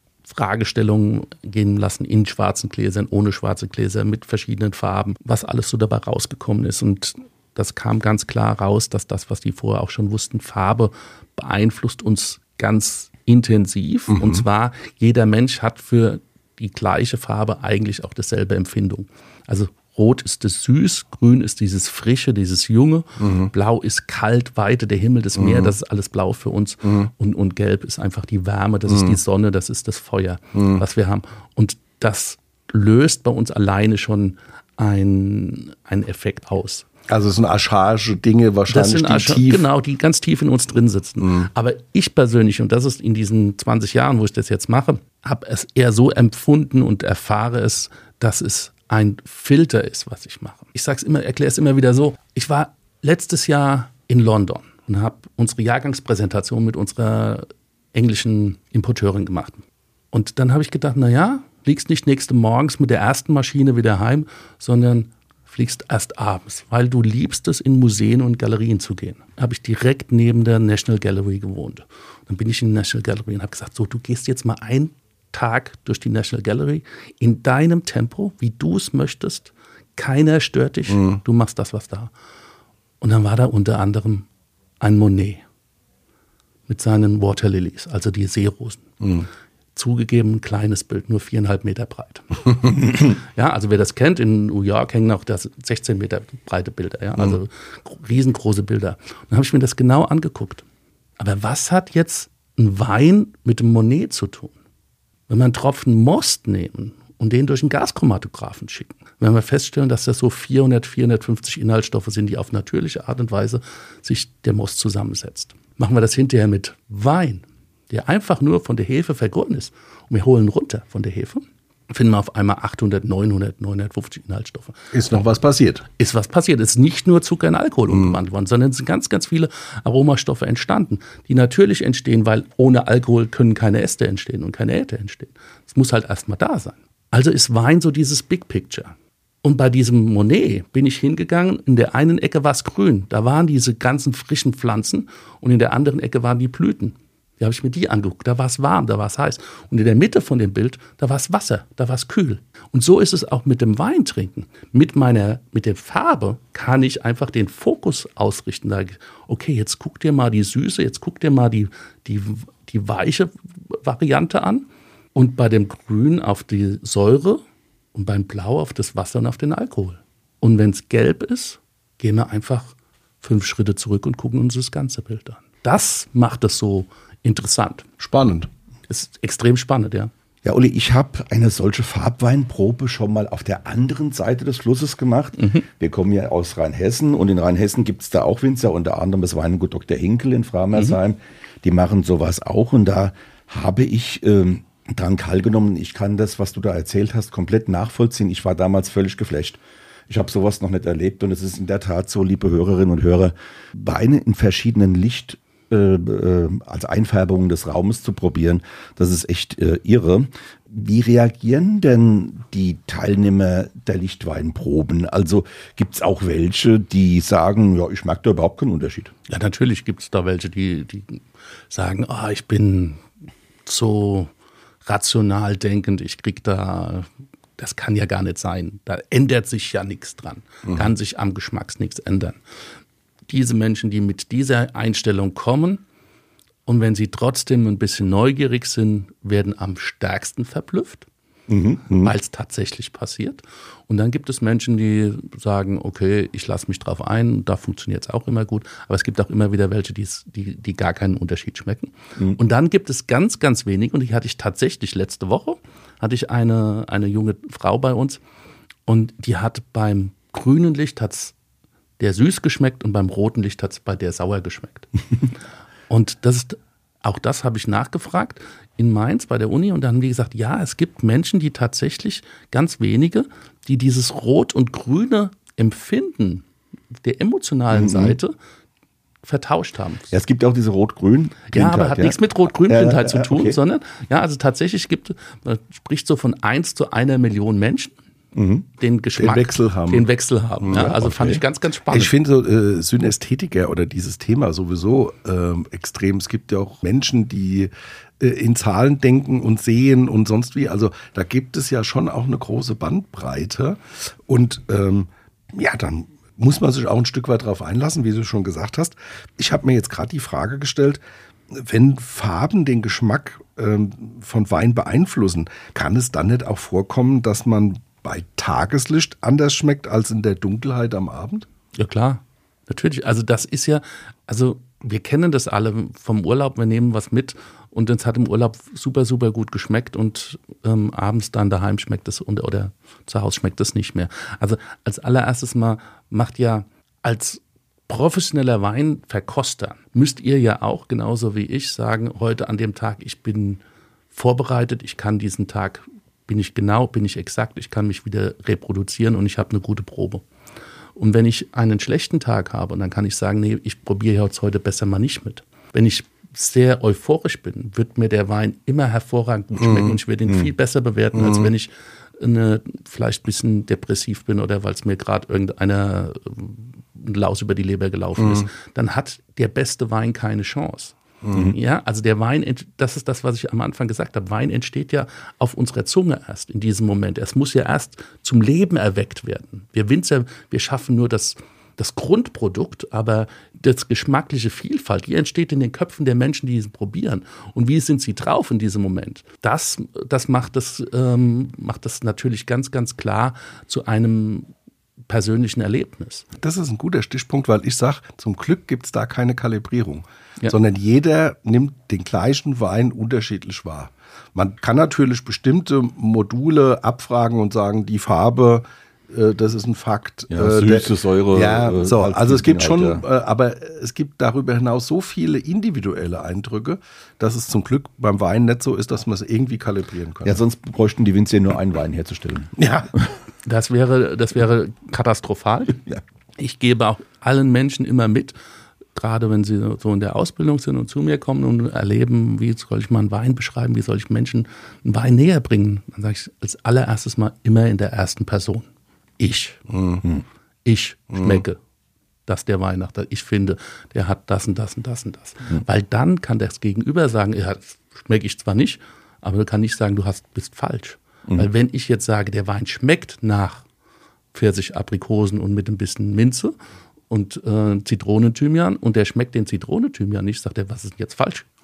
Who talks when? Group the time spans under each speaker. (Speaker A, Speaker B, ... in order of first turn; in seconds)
Speaker A: 0.3-36.9, 38.7-82.1, 83.0-84.3, 84.8-85.4, 86.7-89.0, 89.8-100.6, 101.2-104.5, 105.3-124.9, 125.9-167.4, 167.9-177.9, 178.9-180.1, 219.3-223.0, 223.7-224.3, 224.8-232.4, 233.3-235.8, 236.7-241.1, 242.0-258.2, 258.9-261.4, 262.0-264.9, 265.9-276.5, 277.0-278.4, 279.2-280.1, 281.5-287.9, 288.8-292.1, 321.8-343.6, 344.1-350.2, 351.0-394.5, 395.1-396.3, 423.4-425.8, 426.4-428.4, 428.9-438.7, 439.2-439.7, 440.6-441.6, 442.3-453.6, 454.3-456.6, 457.1-461.5
Speaker B: 14.1-14.4, 23.2-23.5, 25.4-25.7, 28.9-29.2, 30.6-30.8, 37.1-39.6, 41.2-41.5, 80.9-81.2, 89.0-89.3, 124.9-125.8, 127.9-128.2, 178.0-178.5, 289.2-290.1, 290.6-290.9, 291.9-311.0, 311.5-321.5, 359.6-360.0, 361.2-361.5, 368.2-368.5, 371.2-371.5, 396.4-420.4, 422.6-422.9, 439.7-440.0
Speaker C: 180.4-219.1, 241.5-242.1, 277.7-278.2, 280.1-283.6, 288.4-288.7, 290.8-291.4, 410.3-413.1, 420.2-422.6